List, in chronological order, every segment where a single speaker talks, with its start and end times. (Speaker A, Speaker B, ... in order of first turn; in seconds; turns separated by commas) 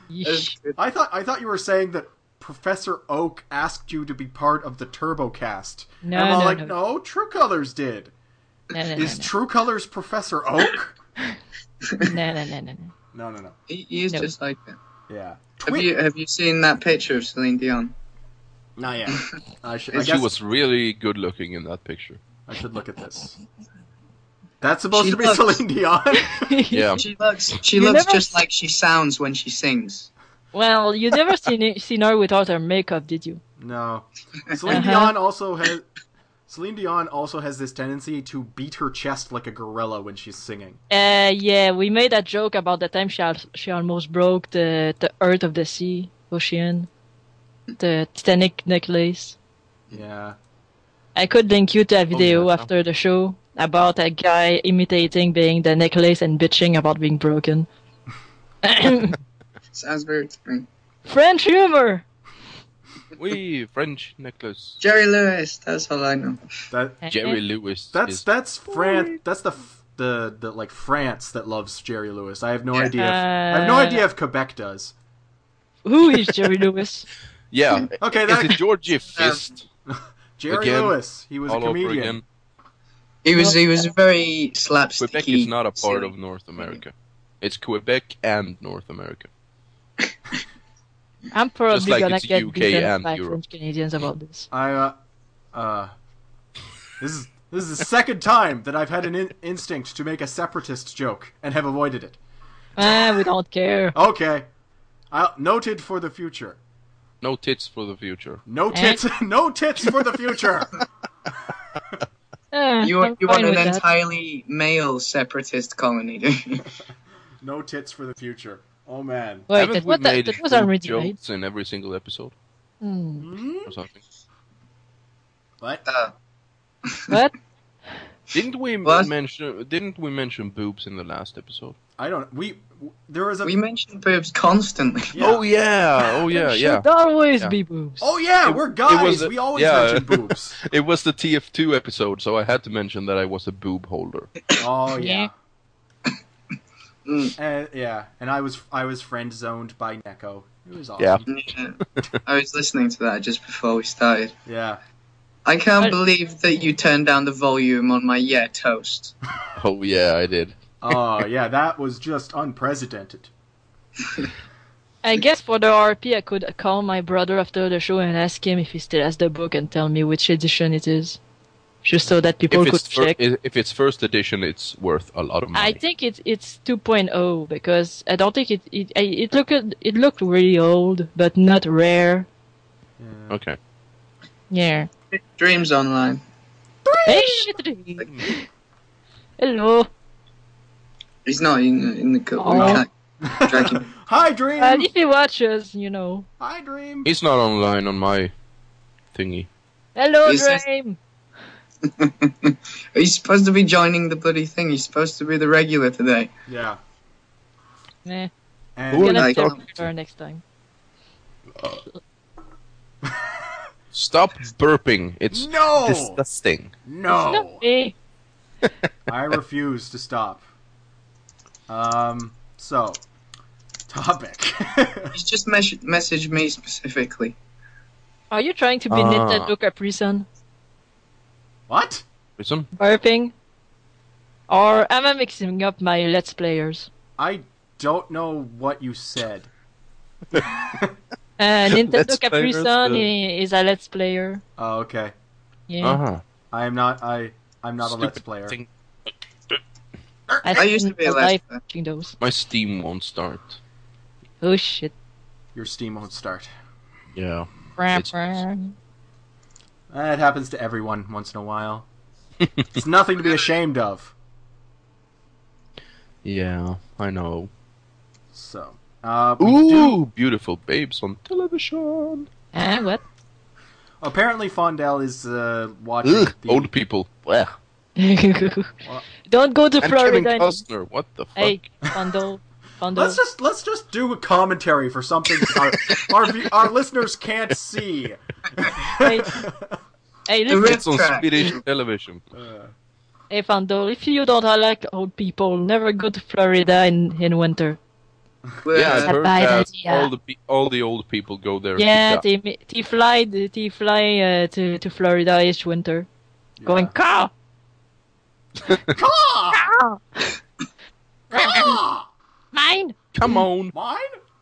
Speaker A: 0.1-0.6, Speaker B: 0.2-0.8, Speaker C: 0.8-8.1, Speaker A: 6.0-6.7, Speaker A: 8.7-9.3, Speaker C: 8.9-10.9, Speaker B: 11.8-12.1, Speaker A: 12.0-12.9, Speaker C: 13.1-13.6, Speaker B: 13.7-14.8, Speaker C: 15.1-15.9, Speaker B: 15.7-17.9, Speaker C: 18.8-20.3, Speaker D: 19.9-22.2, Speaker C: 22.5-23.4, Speaker C: 24.6-26.6, Speaker B: 24.9-25.6, Speaker A: 26.3-27.0, Speaker D: 26.7-27.0, Speaker B: 26.9-30.1, Speaker A: 27.7-28.3, Speaker A: 30.5-33.4, Speaker C: 33.6-35.9, Speaker A: 34.7-35.1, Speaker C: 36.5-40.8, Speaker A: 40.9-46.9, Speaker A: 47.8-49.4, Speaker C: 49.9-50.4, Speaker A: 51.1-57.7, Speaker D: 52.1-52.7, Speaker A: 58.6-59.2, Speaker B: 59.7-60.6, Speaker A: 61.0-62.0, Speaker D: 63.1-64.8, Speaker B: 64.8-66.4, Speaker C: 66.7-67.0, Speaker A: 67.0-67.4, Speaker D: 67.1-69.1, Speaker C: 67.9-74.9, Speaker A: 72.9-74.0, Speaker A: 75.8-77.1, Speaker D: 77.5-79.6, Speaker C: 78.0-78.6, Speaker B: 79.1-79.4, Speaker C: 79.9-82.2, Speaker D: 80.5-82.2, Speaker B: 83.2-86.8, Speaker A: 83.3-83.9, Speaker D: 85.0-89.3, Speaker A: 91.3-94.5, Speaker D: 91.7-93.4, Speaker C: 94.5-95.0, Speaker C: 95.5-95.9, Speaker C: 97.0-102.2, Speaker A: 102.8-104.0, Speaker C: 103.9-104.5, Speaker C: 105.1-106.6, Speaker D: 107.2-108.4, Speaker C: 108.5-110.8, Speaker A: 108.7-109.0, Speaker A: 112.5-113.8, Speaker B: 112.8-116.6, Speaker C: 117.4-119.5, Speaker A: 119.5-121.1, Speaker D: 119.5-122.3, Speaker A: 122.8-123.3, Speaker C: 123.2-123.8, Speaker D: 123.7-124.0, Speaker B: 125.9-126.1, Speaker B: 126.9-127.1, Speaker D: 128.3-131.8, Speaker B: 128.8-129.1, Speaker C: 132.0-133.6, Speaker B: 133.4-135.2, Speaker C: 135.1-135.4, Speaker D: 135.2-136.8, Speaker A: 136.3-138.0, Speaker C: 138.0-140.6, Speaker D: 138.4-144.3, Speaker C: 144.6-145.3, Speaker A: 144.9-145.3, Speaker B: 147.1-147.3, Speaker C: 147.4-151.3, Speaker D: 151.0-151.3, Speaker B: 151.3-154.3, Speaker C: 154.4-154.8, Speaker B: 155.4-159.1, Speaker D: 159.5-160.9, Speaker C: 160.8-163.3, Speaker A: 165.0-171.2, Speaker A: 171.8-173.2, Speaker D: 172.5-175.8, Speaker A: 175.5-182.3, Speaker C: 183.0-183.4, Speaker D: 183.3-183.6, Speaker A: 184.5-184.9, Speaker B: 185.1-186.2, Speaker C: 186.8-187.5, Speaker A: 187.1-188.4, Speaker A: 189.4-189.9, Speaker B: 191.2-192.9, Speaker A: 192.4-192.8, Speaker C: 192.5-194.9, Speaker B: 193.4-193.9, Speaker A: 194.6-196.3, Speaker C: 196.4-197.1, Speaker D: 197.0-198.3, Speaker D: 199.1-199.5, Speaker A: 199.9-201.0, Speaker B: 200.2-200.6, Speaker B: 201.8-206.3, Speaker C: 206.5-206.8, Speaker A: 208.0-208.3, Speaker C: 208.8-209.3, Speaker D: 208.9-209.8, Speaker A: 208.9-210.4, Speaker B: 209.0-209.7, Speaker D: 213.9-216.7, Speaker C: 215.3-216.2, Speaker C: 216.8-217.6, Speaker A: 217.1-217.9, Speaker C: 219.1-220.4, Speaker C: 221.7-223.0, Speaker C: 223.9-225.1, Speaker B: 225.1-227.3, Speaker A: 228.3-230.2, Speaker D: 228.9-229.5, Speaker C: 231.7-232.0, Speaker D: 232.4-232.7, Speaker A: 232.8-233.3, Speaker A: 234.5-236.9, Speaker C: 237.2-239.5, Speaker A: 241.4-244.4, Speaker D: 241.7-243.1, Speaker C: 244.6-245.1, Speaker A: 245.7-246.0, Speaker D: 245.8-246.2, Speaker C: 246.5-248.6, Speaker D: 247.8-248.7, Speaker A: 250.4-252.2, Speaker B: 250.5-251.6, Speaker D: 252.2-253.6, Speaker A: 254.4-254.9, Speaker C: 255.5-256.5, Speaker D: 257.1-258.4, Speaker A: 257.8-258.7, Speaker C: 259.9-261.9, Speaker C: 262.7-264.1, Speaker D: 266.2-267.5, Speaker C: 268.3-270.0, Speaker D: 269.4-272.3, Speaker A: 272.5-273.0, Speaker C: 274.0-276.7, Speaker D: 276.0-277.5, Speaker A: 278.0-278.7, Speaker A: 279.2-280.6, Speaker D: 279.8-281.7, Speaker A: 281.4-283.2, Speaker C: 282.9-289.8, Speaker A: 289.0-289.4, Speaker A: 290.3-290.8, Speaker B: 290.5-291.6, Speaker D: 290.6-292.2, Speaker C: 292.3-292.7, Speaker A: 293.3-297.8, Speaker B: 298.6-299.2, Speaker D: 298.7-302.2, Speaker A: 298.9-300.1, Speaker A: 301.8-306.1, Speaker C: 306.6-306.9, Speaker A: 306.6-307.3, Speaker C: 308.9-309.7, Speaker A: 309.5-310.4, Speaker A: 311.3-311.8, Speaker C: 311.3-312.1, Speaker A: 312.5-313.4, Speaker D: 313.1-313.7, Speaker C: 313.7-314.2